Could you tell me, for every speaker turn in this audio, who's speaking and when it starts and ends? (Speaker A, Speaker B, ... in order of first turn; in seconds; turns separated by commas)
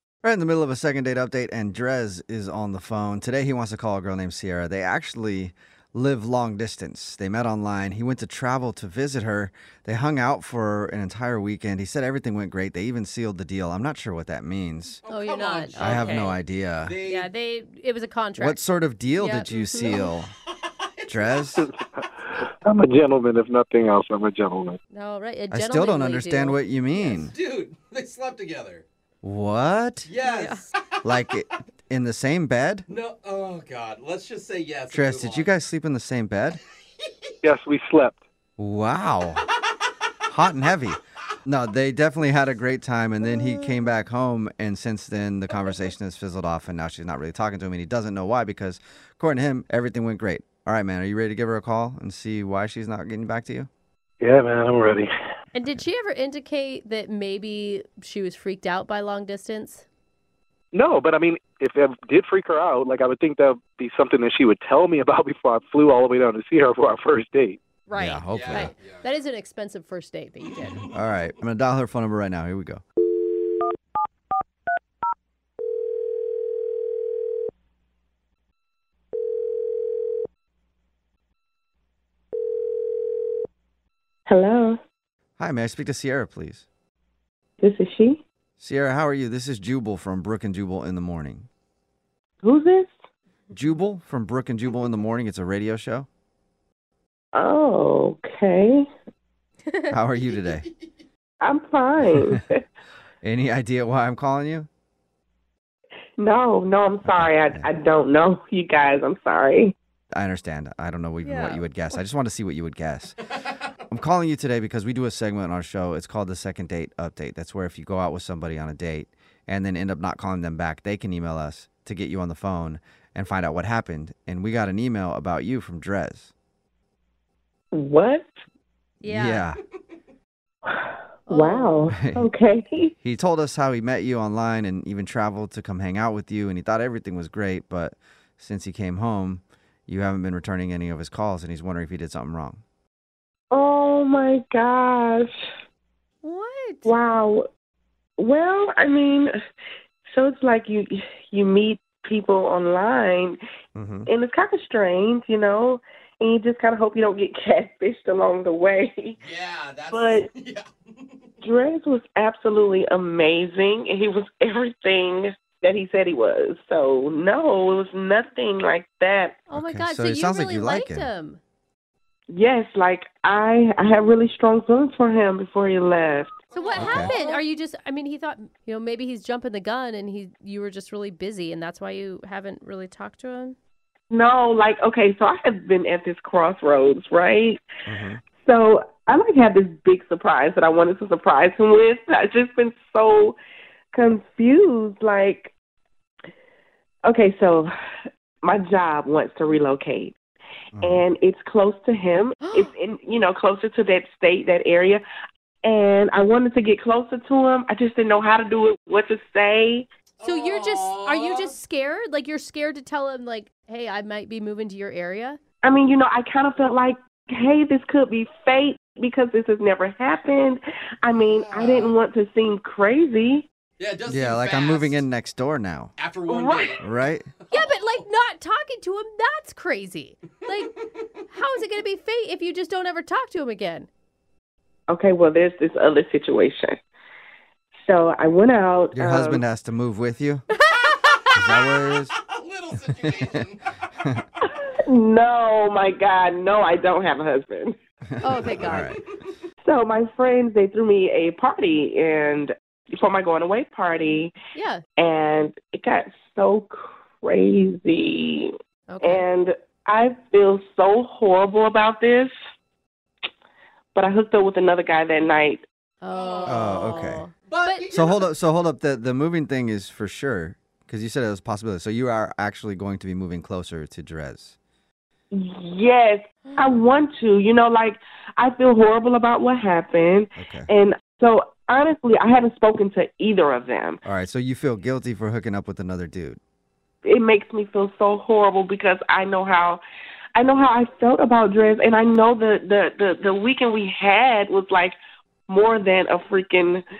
Speaker A: 0.2-15.0, Speaker B: 15.0-17.3, Speaker C: 15.1-16.4, Speaker A: 15.8-17.0, Speaker C: 17.1-20.1, Speaker A: 18.4-20.3, Speaker B: 20.4-21.5, Speaker A: 21.1-21.6, Speaker D: 21.6-24.8, Speaker C: 24.9-27.3, Speaker A: 25.5-27.3, Speaker B: 27.2-28.9, Speaker A: 29.2-30.1, Speaker B: 30.1-31.1, Speaker C: 30.2-30.7, Speaker A: 31.0-32.9, Speaker B: 32.9-35.5, Speaker A: 34.9-36.6, Speaker B: 37.0-37.4, Speaker D: 37.4-38.2, Speaker A: 38.6-39.5, Speaker B: 39.5-39.8, Speaker A: 40.3-53.7, Speaker D: 54.2-55.1, Speaker C: 55.5-59.9, Speaker D: 60.7-67.6, Speaker C: 67.9-70.9, Speaker A: 68.0-68.7, Speaker B: 68.3-69.1, Speaker B: 70.4-71.0, Speaker A: 70.9-72.8, Speaker E: 84.3-84.8, Speaker A: 85.4-86.7, Speaker E: 87.6-88.2, Speaker A: 88.6-91.5, Speaker E: 92.4-92.9, Speaker A: 93.5-96.1, Speaker E: 97.3-98.9, Speaker C: 99.7-100.0, Speaker A: 99.9-100.7, Speaker B: 100.3-101.0, Speaker E: 101.4-102.6, Speaker A: 103.2-104.7, Speaker E: 106.2-109.8, Speaker A: 107.0-107.7, Speaker A: 110.2-113.3, Speaker C: 111.2-112.0, Speaker A: 113.9-126.3, Speaker E: 127.7-128.4, Speaker C: 129.0-129.5, Speaker A: 129.1-129.6, Speaker E: 130.7-132.9, Speaker C: 131.3-131.8, Speaker A: 131.9-132.3, Speaker A: 133.0-142.6, Speaker E: 143.5-145.3, Speaker C: 146.2-146.9, Speaker E: 146.8-147.5, Speaker E: 148.2-149.3, Speaker E: 150.1-153.4, Speaker A: 153.8-154.1, Speaker E: 154.1-159.2, Speaker B: 159.2-161.3, Speaker E: 159.9-160.3, Speaker E: 161.4-169.4, Speaker A: 169.5-171.1, Speaker C: 169.5-171.4, Speaker E: 172.3-176.3, Speaker B: 176.5-177.4, Speaker C: 176.5-183.6, Speaker A: 176.8-177.1, Speaker E: 184.1-187.6, Speaker A: 187.9-188.2, Speaker E: 188.4-193.4, Speaker E: 193.9-195.5, Speaker E: 197.1-197.7, Speaker E: 198.4-200.2, Speaker A: 200.8-201.1, Speaker E: 200.8-205.0, Speaker E: 205.6-209.9, Speaker B: 210.2-211.6, Speaker C: 210.2-215.4, Speaker E: 215.6-223.5, Speaker B: 221.1-222.0, Speaker B: 223.8-225.0, Speaker A: 224.1-225.9, Speaker B: 226.0-226.9, Speaker E: 226.3-226.8, Speaker A: 226.8-227.3, Speaker B: 227.4-227.8, Speaker C: 227.5-233.9, Speaker E: 234.9-236.8, Speaker E: 237.8-239.4, Speaker A: 238.9-240.4, Speaker C: 240.7-241.2, Speaker A: 241.3-242.1, Speaker B: 242.1-243.9, Speaker A: 243.0-243.4, Speaker E: 244.5-247.8, Speaker A: 248.1-249.0, Speaker C: 248.2-248.9, Speaker E: 249.6-254.3, Speaker C: 254.6-254.8, Speaker E: 255.0-262.3, Speaker C: 258.9-259.2, Speaker E: 263.9-265.7, Speaker C: 266.0-267.9, Speaker B: 266.1-266.9, Speaker A: 266.4-267.2, Speaker B: 267.4-268.3, Speaker A: 267.9-274.6, Speaker E: 275.3-284.0, Speaker A: 280.4-280.7, Speaker A: 284.1-286.4, Speaker E: 287.0-289.8, Speaker E: 290.4-294.9, Speaker E: 295.5-296.8